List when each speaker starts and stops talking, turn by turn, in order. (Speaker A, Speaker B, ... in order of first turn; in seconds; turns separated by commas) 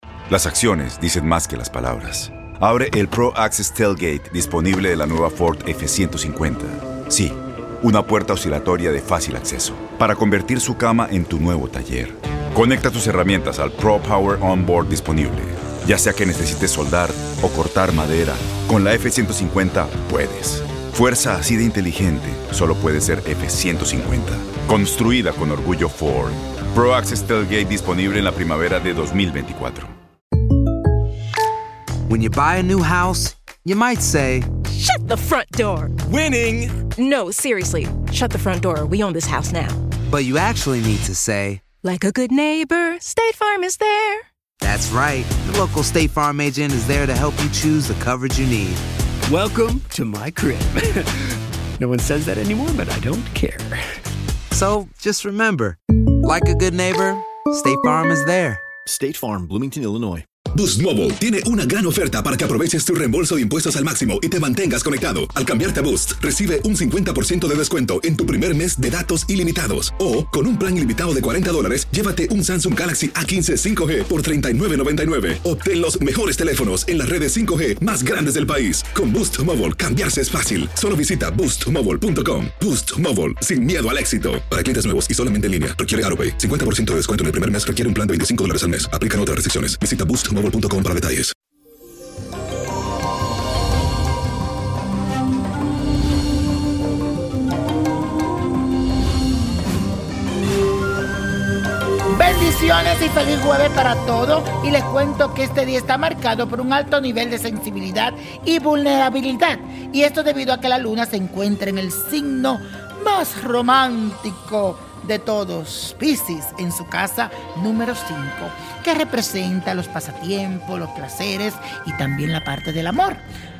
Speaker A: 0.3-29.9, Speaker B: 32.1-34.5, Speaker C: 34.7-36.0, Speaker C: 36.9-39.8, Speaker B: 40.1-41.6, Speaker C: 41.8-44.2, Speaker B: 44.6-48.8, Speaker D: 49.3-50.9, Speaker D: 51.8-53.8, Speaker B: 54.5-58.6, Speaker E: 60.5-91.3, Speaker F: 102.1-123.2